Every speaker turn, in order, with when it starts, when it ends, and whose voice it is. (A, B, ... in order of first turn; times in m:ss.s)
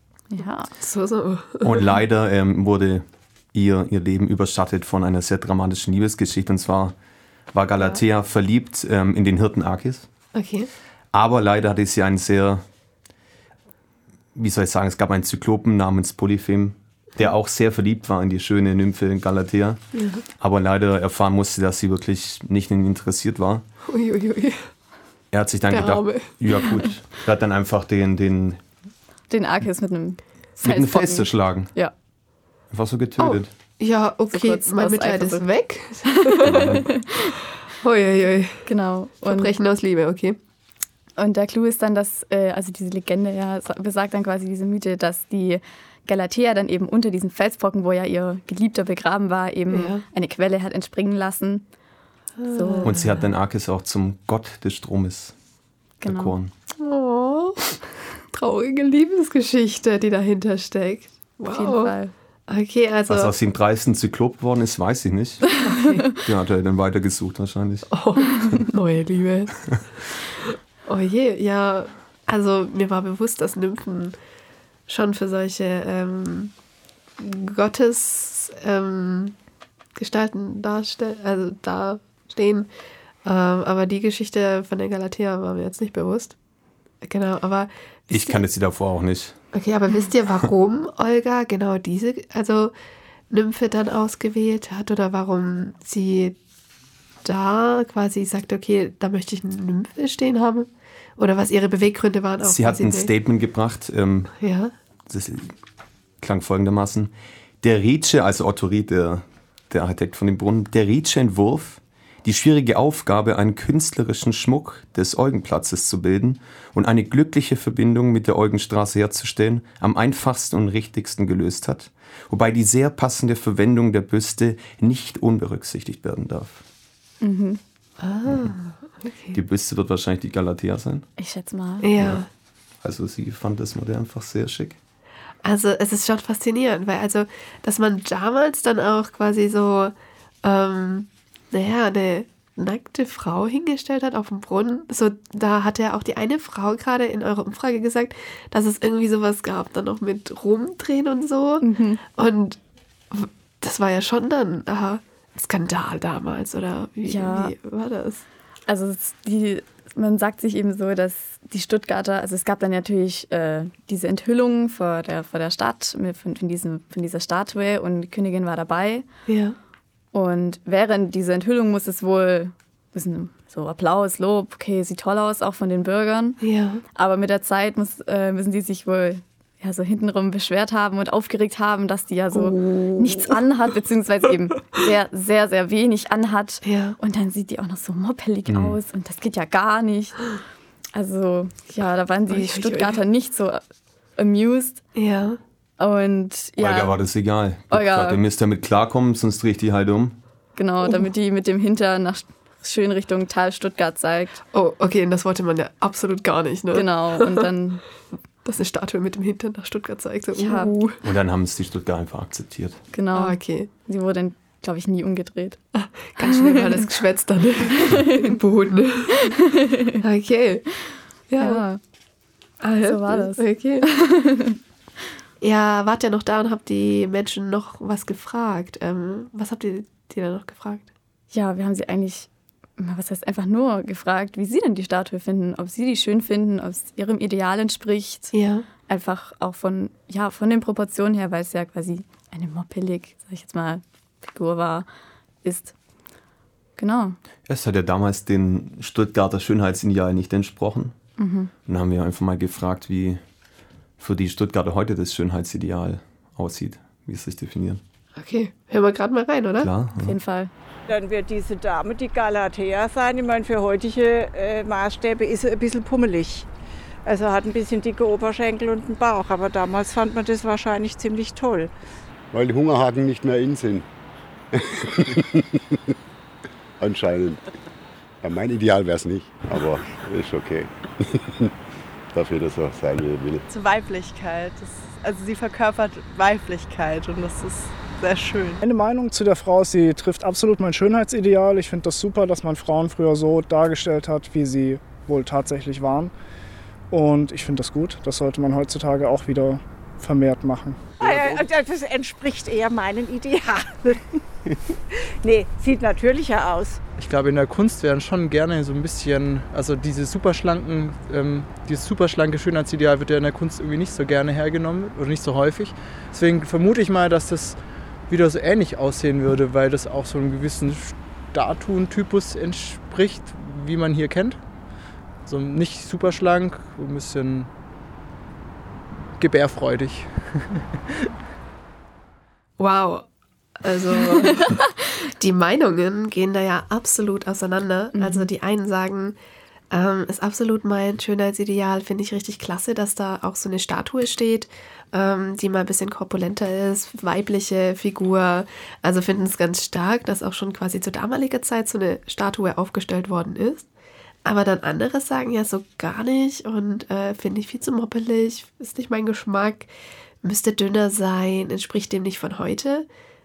0:00.3-0:00.7 A
0:00.8-0:01.8 B
0:01.6-0:07.0 C
0:07.5-0:10.1 C
0:10.3-0:10.7 B
0:11.1-0:12.6 C
0:14.4-0:19.8 C
0:19.9-0:20.2 B
0:20.4-0:23.6 C
0:23.9-0:24.7 B
0:25.3-0:28.6 C
0:25.7-0:26.3 B
0:29.3-0:31.9 A
0:30.6-0:31.7 C
0:32.7-0:33.5 C
0:33.2-0:36.8 B
0:34.3-0:35.5 A
0:36.1-0:37.4 A
0:36.4-0:36.9 C
0:37.8-0:38.7 B
0:38.7-0:39.5 A
0:39.2-0:40.4 B
0:41.2-0:51.7 A
0:49.7-0:50.0 B
0:52.4-0:53.0 B
0:52.5-0:53.2 A
0:52.8-0:55.3 C
0:56.0-0:56.4 A
0:56.0-0:56.5 C
0:56.8-0:57.7 B
0:58.3-1:01.9 B
1:01.5-1:02.1 A
1:02.5-1:03.3 B
1:03.1-1:05.5 C
1:05.6-1:06.1 B
1:06.2-1:07.9 C
1:07.9-1:09.6 B
1:10.9-1:14.2 B
1:14.9-1:16.5 B
1:17.2-1:19.4 B
1:20.0-1:22.7 B
1:23.2-1:26.4 B
1:27.0-1:28.4 B
1:28.1-1:29.4 C
1:29.5-1:32.7 B
1:33.3-1:36.4 B
1:37.2-1:43.1 B
1:42.4-1:44.4 C
1:44.4-1:44.7 B
1:45.1-1:45.5 C
1:46.2-2:06.6 C
2:07.2-2:07.6 A
2:08.0-2:09.4 B
2:09.3-2:11.1 C
2:11.2-2:12.0 A
2:11.8-2:12.3 B
2:12.8-2:14.8 C
2:15.4-2:19.9 B
2:20.4-2:32.6 B
2:31.6-2:32.0 A
2:33.1-2:38.2 B
2:37.0-2:37.6 A
2:38.7-2:49.0 A
2:49.3-2:49.6 B
2:50.1-2:56.4 A
2:56.4-2:56.8 B
2:57.0-3:10.4 A
3:02.3-3:03.4 B
3:06.6-3:07.0 B
3:08.5-3:08.8 C
3:11.0-3:13.6 A
3:12.3-3:13.0 B
3:14.2-3:14.8 A
3:15.0-3:15.4 B
3:15.8-3:17.0 A
3:16.6-3:20.2 C
3:17.7-3:18.2 A
3:20.6-3:24.4 A
3:24.5-3:27.5 B
3:26.7-3:27.8 A
3:28.4-3:31.0 B
3:30.4-3:30.8 A
3:31.0-3:32.8 C
3:32.9-3:35.6 A
3:33.1-3:33.7 B
3:35.8-3:39.3 B
3:36.2-3:36.9 A
3:37.8-3:38.4 A
3:39.3-3:40.0 A
3:40.0-3:40.7 B
3:41.3-3:41.6 B
3:41.4-3:41.8 A
3:42.6-3:43.9 B
3:42.8-3:44.6 A
3:45.4-3:50.9 B
3:51.3-3:58.3 A
3:58.3-3:58.7 B
3:58.8-4:04.9 A
4:05.4-4:05.7 A
4:06.8-4:07.2 A
4:07.5-4:11.0 C
4:11.2-4:11.5 A
4:11.7-4:13.2 C
4:14.0-4:17.8 C
4:18.2-4:19.7 B
4:19.6-4:20.2 C
4:20.0-4:20.5 A
4:20.9-4:26.5 D
4:27.1-4:31.7 D
4:32.3-4:33.9 E
4:34.5-4:35.9 E
4:36.8-4:37.4 E
4:38.2-4:41.5 E
4:42.1-4:43.4 E
4:43.5-4:48.6 F
4:48.6-4:56.1 G
4:56.9-5:00.9 G
5:01.0-5:04.2 D
5:04.9-5:06.8 D
5:07.0-5:24.4 H
5:25.3-5:27.5 H
5:29.2-5:30.6 H
5:32.6-5:33.1 B
5:33.6-5:34.6 B
5:34.2-5:34.6 A
5:35.2-5:39.2 B
5:38.0-5:38.3 A
5:39.7-5:53.7 B
5:54.2-5:59.7 B
6:00.2-6:02.9 B